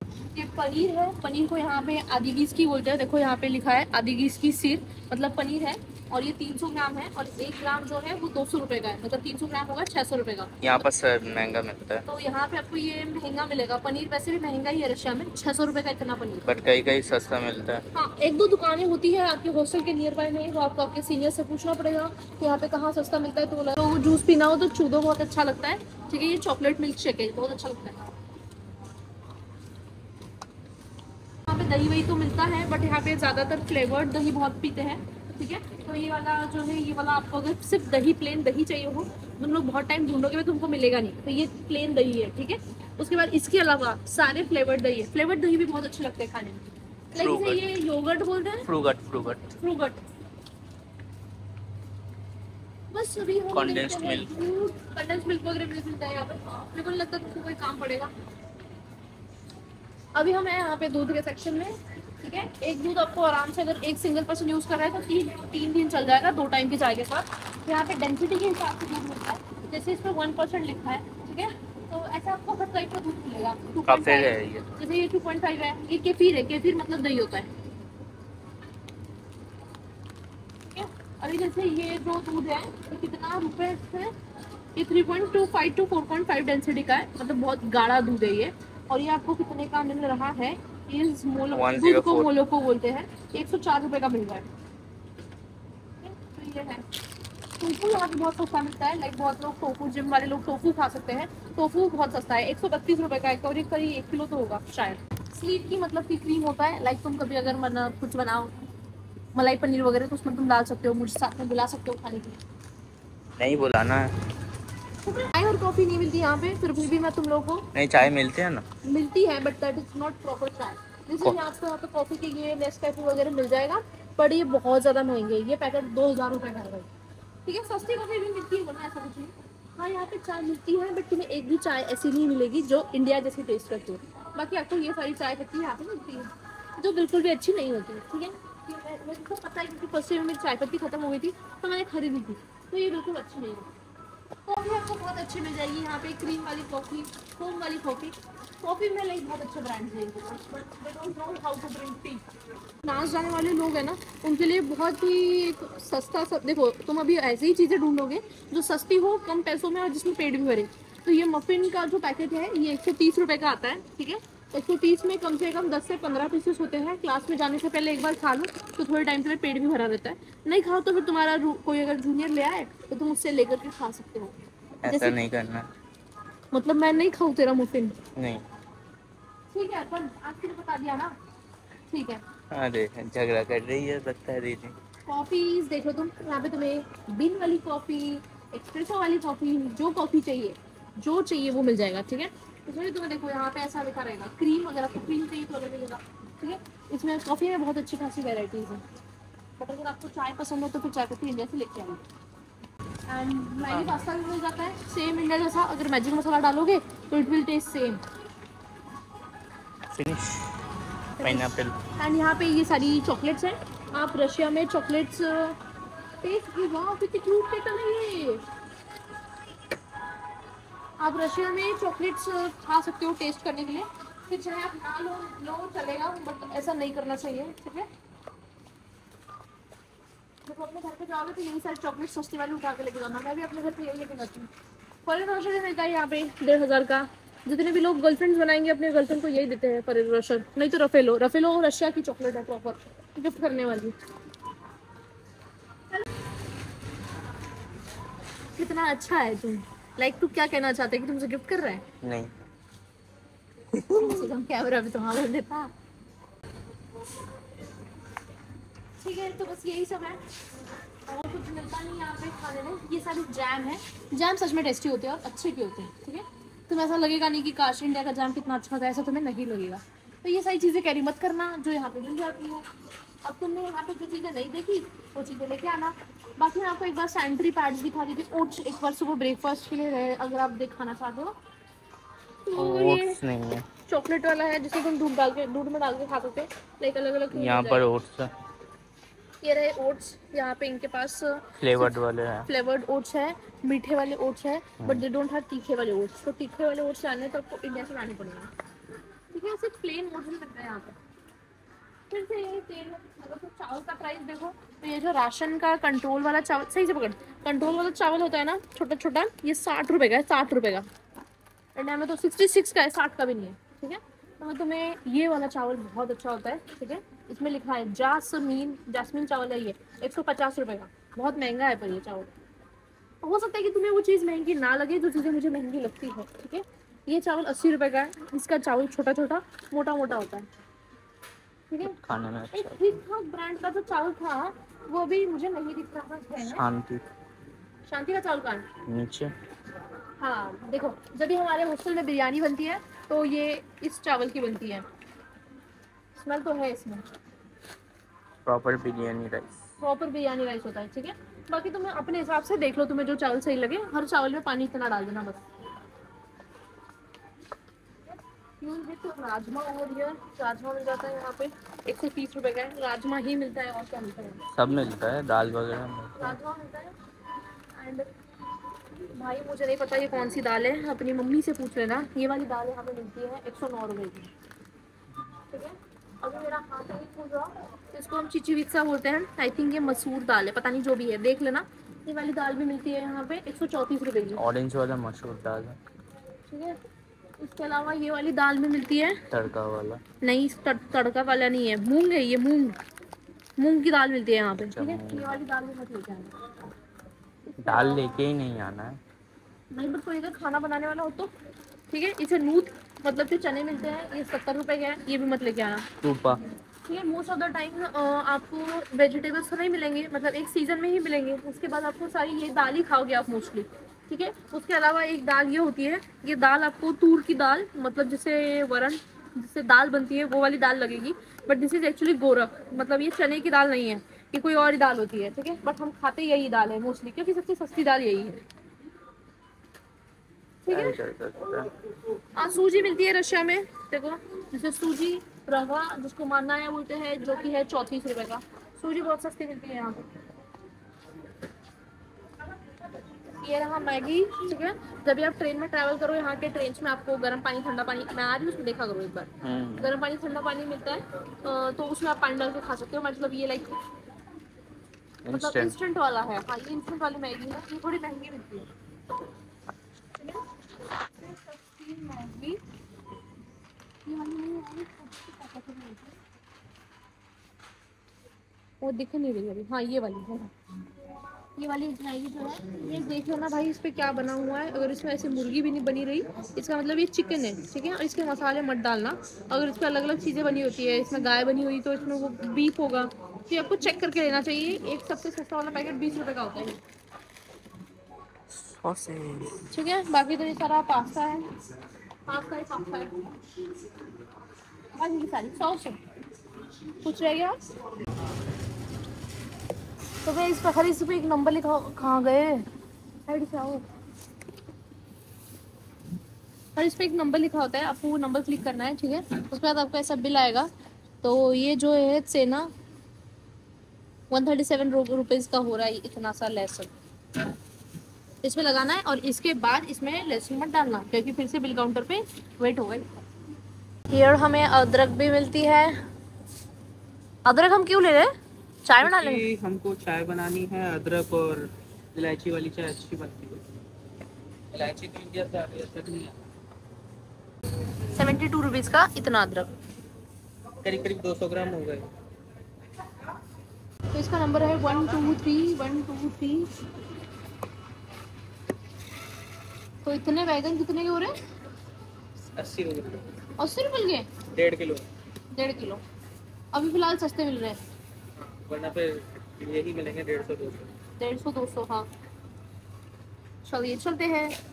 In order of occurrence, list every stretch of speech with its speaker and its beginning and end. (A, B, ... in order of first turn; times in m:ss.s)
0:00.3-0:10.5 A
0:10.6-0:12.0 B
0:12.1-0:16.5 A
0:16.4-0:17.8 B
0:17.9-0:28.1 A
0:31.5-0:48.7 A
0:47.2-0:47.6 B
0:48.7-0:49.5 B
0:49.6-0:50.0 A
0:52.9-0:58.1 A
0:53.5-0:54.3 B
1:00.2-1:17.5 A
1:13.9-1:14.7 B
1:20.7-1:24.1 A
1:24.8-1:34.5 A
1:31.5-1:32.3 B
1:36.0-1:36.8 A
1:37.6-1:48.6 A
1:49.4-1:52.4 A
1:53.4-1:54.1 B
1:55.0-1:57.7 A
1:57.7-1:58.6 B
1:58.8-2:06.9 A
2:07.5-2:23.7 A
2:24.5-2:32.2 A
2:32.8-2:54.4 A
2:54.8-2:55.7 B
2:54.9-2:55.2 A
2:56.5-2:58.0 A
2:58.2-2:58.4 B
2:59.5-3:01.2 A
3:01.9-3:02.2 A
3:02.5-3:04.7 B
3:05.1-3:18.8 A
3:19.6-3:22.0 A
3:23.1-3:28.0 A
3:23.7-3:24.0 B
3:29.9-3:30.6 B
3:31.2-3:31.5 A
3:31.2-3:31.8 B
3:32.0-3:35.6 A
3:36.2-3:38.4 A
3:41.0-3:47.9 A
3:50.5-3:54.5 A
3:55.1-4:04.0 A
4:08.6-4:11.8 A
4:12.0-4:12.3 B
4:13.7-4:14.2 B
4:13.9-4:15.7 A
4:19.0-4:20.2 A
4:21.1-4:32.7 A
4:33.2-4:41.4 A
4:42.4-4:43.2 A
4:42.6-4:43.7 B
4:43.9-4:47.8 A
4:47.3-4:48.3 B
4:49.4-4:58.5 A
4:51.6-4:52.5 B
4:59.3-5:01.0 A
5:02.1-5:10.9 A
5:11.8-5:22.3 A
5:23.2-5:30.5 A
5:31.7-5:32.0 A
5:31.8-5:32.9 B
5:32.5-5:36.6 A
5:36.4-5:37.0 B
5:37.9-5:38.7 A
5:38.9-5:39.3 B
5:40.2-5:44.8 A
5:46.2-5:47.1 A
5:48.4-5:49.6 B
5:49.8-5:55.4 A
5:58.6-6:04.4 A
6:04.5-6:06.4 B
6:06.2-6:07.0 A
6:07.8-6:08.1 A
6:09.2-6:14.3 A
6:15.5-6:24.4 A
6:24.4-6:25.8 B
6:26.5-6:26.8 A
6:27.4-6:29.2 A
6:29.3-6:30.0 B
6:30.2-6:32.8 A
6:33.6-6:36.4 A
6:34.6-6:35.4 B
6:37.5-6:38.2 A
6:37.6-6:39.0 B
6:39.7-6:41.3 A
6:41.9-6:45.9 A
6:46.0-6:46.4 B
6:46.9-7:08.4 A
7:10.6-7:11.0 A
7:10.7-7:11.7 B
7:12.4-7:20.0 A
7:23.3-7:33.8 A
7:29.4-7:29.9 B
7:35.2-7:35.8 B
7:35.3-7:38.7 A
7:40.2-7:40.5 A
7:41.2-7:42.6 A
7:44.0-7:46.2 A
7:48.8-7:50.5 A
7:51.6-8:06.8 A
8:08.5-8:09.6 B
8:09.7-8:11.5 A
8:12.3-8:13.2 A
8:15.0-8:16.0 A
8:17.0-8:17.7 A
8:20.2-8:22.7 A
8:23.3-8:23.8 A
8:26.8-8:30.7 A
8:31.2-8:32.7 A
8:34.3-8:36.9 A
8:38.4-8:43.2 A
8:44.1-8:46.0 A
8:47.4-8:48.3 A
8:48.8-8:49.4 A
8:49.0-8:53.6 C
8:54.7-8:56.4 C
8:58.2-8:59.7 A
9:00.8-9:02.0 C
9:04.1-9:06.7 A
9:10.0-9:11.4 A
9:12.6-9:13.2 C
9:13.6-9:14.3 A
9:14.5-9:15.0 C
9:15.5-9:16.0 A
9:16.7-9:17.8 A
9:18.5-9:20.9 C
9:21.2-9:22.1 A
9:23.7-9:24.6 A